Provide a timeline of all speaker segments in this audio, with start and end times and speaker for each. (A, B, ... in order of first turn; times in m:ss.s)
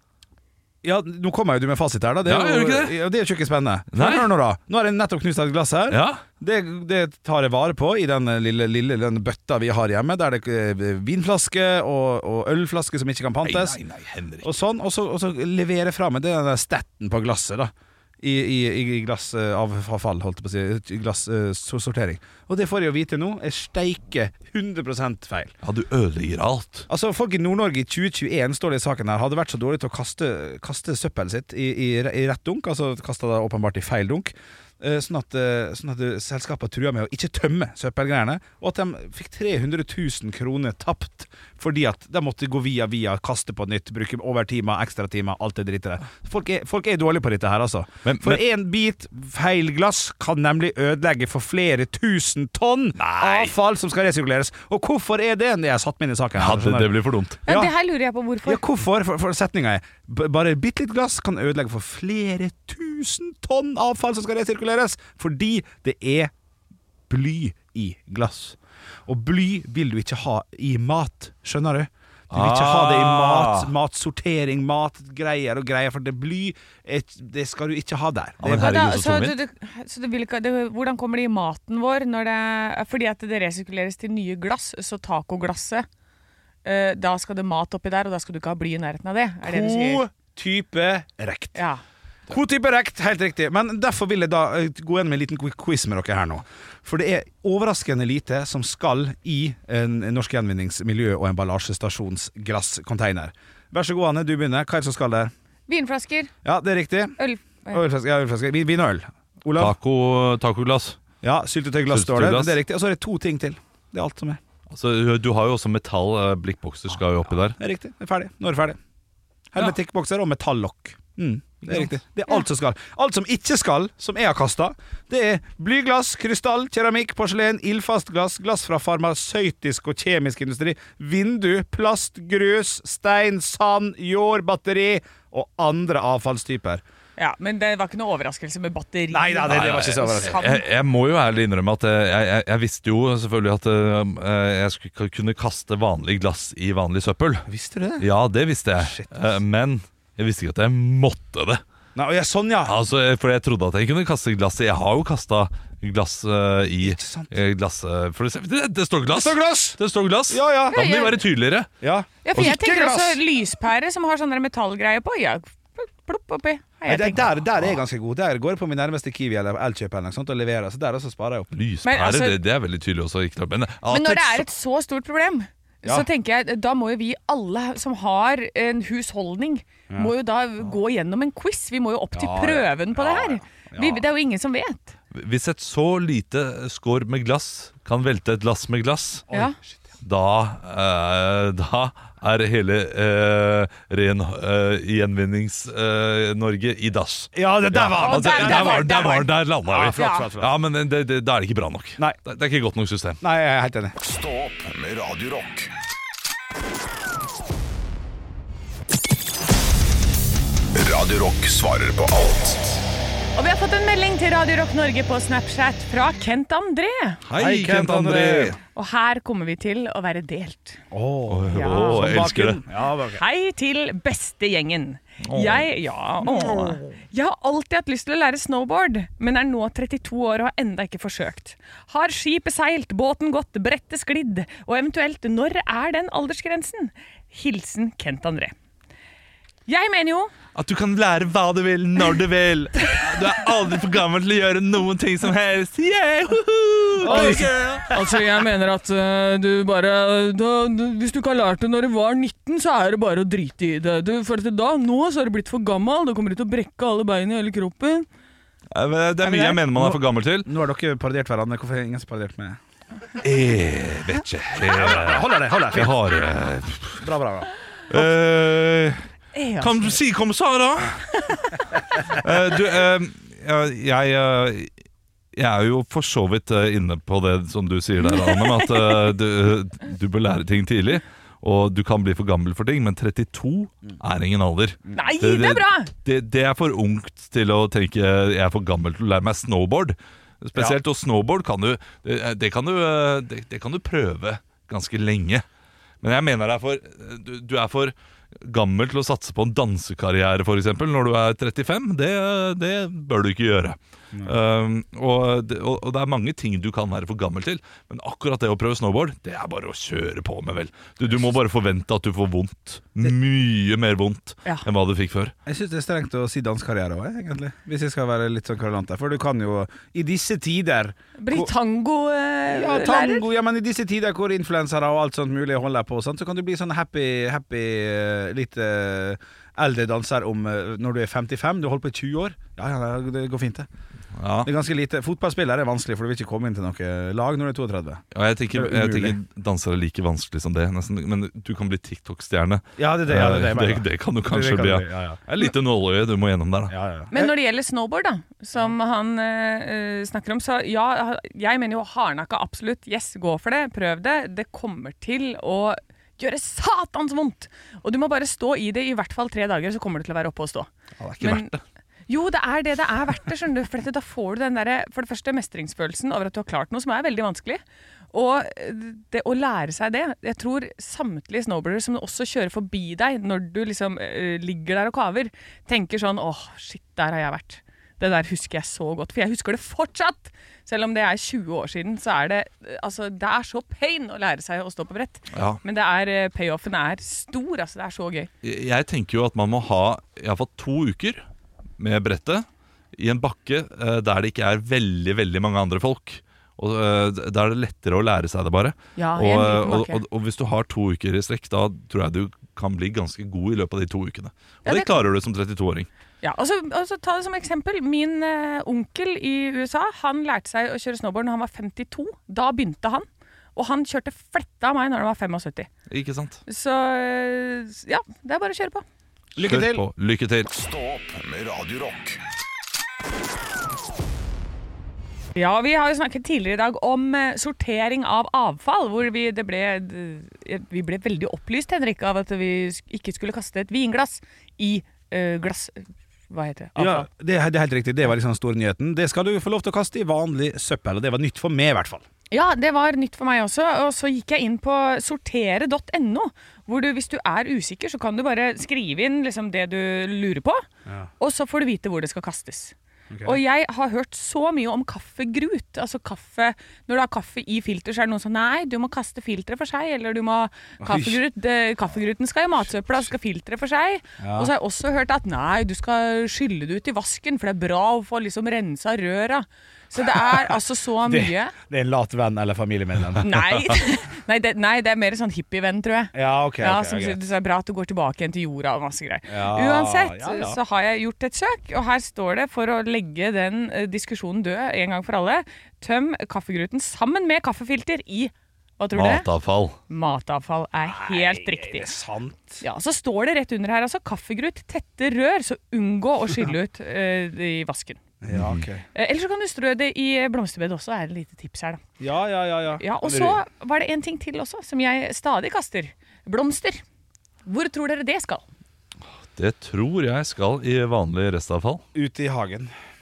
0:00.8-0:13.8 A
0:02.2-0:03.0 B
0:03.9-0:04.3 B
0:05.9-0:06.2 B
0:13.4-0:14.5 B
0:14.4-0:25.5 A
0:25.6-0:26.9 B
0:26.9-0:56.9 A
0:48.0-0:48.4 B
0:53.0-0:53.5 B
0:56.4-0:57.4 B
0:57.4-0:57.7 A
0:57.5-0:58.6 C
0:58.4-1:06.3 A
1:07.1-1:18.7 A
1:12.3-1:13.7 B
1:18.4-1:19.4 B
1:18.5-1:25.9 C
1:26.6-1:30.0 C
1:29.4-1:31.6 A
1:31.5-1:31.8 C
1:32.3-1:45.3 A
1:45.7-1:46.3 C
1:46.4-1:47.2 A
1:47.2-1:47.8 C
1:47.7-1:49.7 A
1:49.6-1:51.0 B
1:51.2-1:54.4 A
1:51.9-1:52.6 B
1:54.7-1:57.6 B
1:57.5-1:58.8 A
1:59.5-2:16.8 A
2:17.2-2:20.6 C
2:19.1-2:20.4 A
2:19.5-2:27.5 B
2:27.4-2:28.1 A
2:28.0-2:31.6 B
2:28.8-2:29.3 A
2:31.9-2:32.8 A
2:32.6-2:41.7 B
2:36.8-2:37.3 A
2:39.1-2:39.8 A
2:40.3-2:40.9 A
2:40.7-2:41.2 C
2:41.8-2:43.2 A
2:42.2-2:47.3 C
2:46.8-2:51.5 A
2:51.5-2:54.5 B
2:51.8-2:52.4 C
2:53.9-3:04.9 C
3:02.1-3:04.0 A
3:05.1-3:09.2 B
3:09.3-3:09.7 A
3:09.3-3:09.6 C
3:10.0-3:23.2 B
3:17.3-3:20.5 A
3:18.0-3:19.3 C
3:20.0-3:20.3 C
3:23.2-3:23.9 A
3:24.0-3:25.7 D
3:30.7-3:32.8 D
3:33.4-3:37.2 C
3:37.2-3:38.6 B
3:37.3-3:38.6 A
3:38.7-3:40.8 C
3:40.9-3:43.2 A
3:41.3-3:42.6 B
3:41.5-3:42.0 C
3:43.1-3:58.5 C
3:45.2-3:45.7 B
3:46.2-3:46.9 B
3:59.7-4:00.3 C
4:00.5-4:08.0 B
4:07.0-4:07.6 A
4:07.0-4:18.1 C
4:18.7-4:20.5 B
4:19.2-4:22.6 A
4:23.2-4:27.1 B
4:24.6-4:25.9 A
4:27.0-4:27.5 A
4:27.9-4:29.0 B
4:29.3-4:30.0 C
4:29.6-4:31.1 B
4:31.2-4:31.6 C
4:32.1-4:34.7 B
4:35.3-4:55.4 B
4:38.1-4:39.1 C
4:44.9-4:45.9 C
4:56.0-5:15.3 B
5:15.4-5:21.5 A
5:21.2-5:23.3 C
5:22.5-5:33.7 A
5:34.2-5:34.5 B
5:34.4-5:39.2 A
5:38.1-5:46.8 B
5:42.8-5:45.2 A
5:46.7-5:47.3 A
5:47.1-6:00.7 C
6:01.0-6:01.4 A
6:01.2-6:01.6 B
6:01.2-6:01.5 C
6:02.1-6:28.3 C
6:25.3-6:25.6 B
6:28.4-6:31.2 B
6:31.8-6:45.9 B
6:39.0-6:40.0 C
6:44.6-6:45.0 C
6:46.2-6:55.7 C
6:55.9-6:56.4 B
6:56.5-6:58.8 C
6:59.4-6:59.8 A
6:59.4-7:00.5 B
7:00.5-7:02.2 D
7:05.4-7:17.1 C
7:16.8-7:22.0 A
7:22.3-7:30.6 C
7:31.2-7:51.5 C
7:33.1-7:33.4 A
7:40.8-7:41.2 A
7:44.2-7:44.5 A
7:51.0-7:53.4 A
7:53.2-8:09.3 C
7:56.1-7:57.2 A
7:59.3-8:00.6 A
8:08.9-8:09.8 B
8:09.9-8:11.9 C
8:10.8-8:12.6 A
8:12.6-8:18.0 C
8:18.2-8:18.8 A
8:18.3-8:18.6 B
8:18.9-8:21.8 C
8:22.0-8:23.4 A
8:22.8-8:26.8 C
8:27.4-8:28.4 C
8:29.3-8:31.8 B
8:31.9-8:32.7 A